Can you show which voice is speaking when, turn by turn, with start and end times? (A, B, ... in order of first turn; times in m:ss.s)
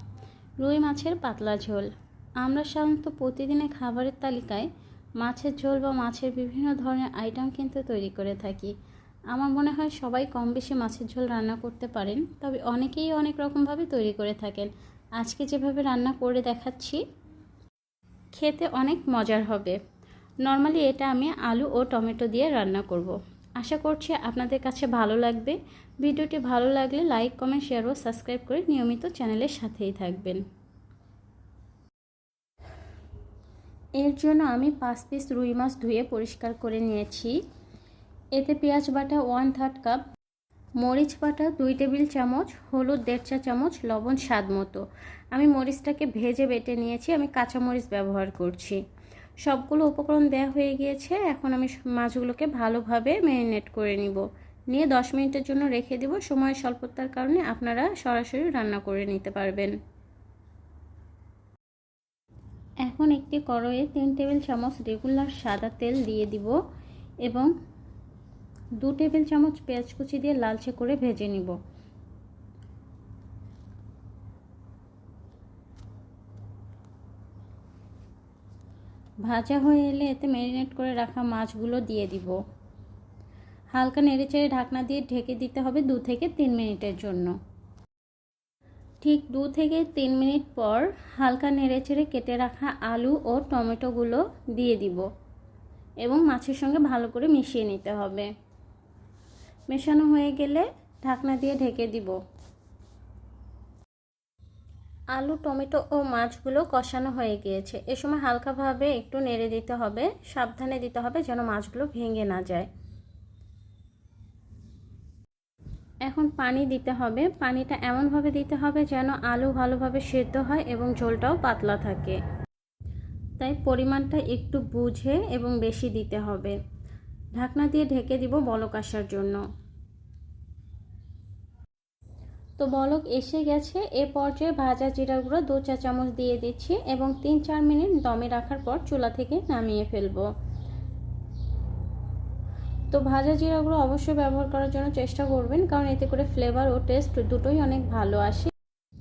0:00.6-0:08.7 A
0:09.3-0:17.0 A
0:18.3-0:19.8 A
0:20.4-0:30.4 A
0:34.0-0:37.4 A
0:38.4-0:40.0 A
0:40.8-0:48.8 A
0:49.4-0:59.7 A
1:02.8-1:06.6 A
1:07.2-1:07.5 A
1:08.8-1:11.6 A
1:19.2-1:22.4 A
1:23.7-1:27.3 A
1:29.0-1:35.1 A
1:36.0-1:38.3 A
1:39.7-1:42.2 A
1:45.1-1:52.7 A
1:56.0-2:02.2 A
2:03.4-2:06.6 A
2:07.4-2:09.4 A
2:12.6-2:20.3 A
2:22.9-2:28.5 A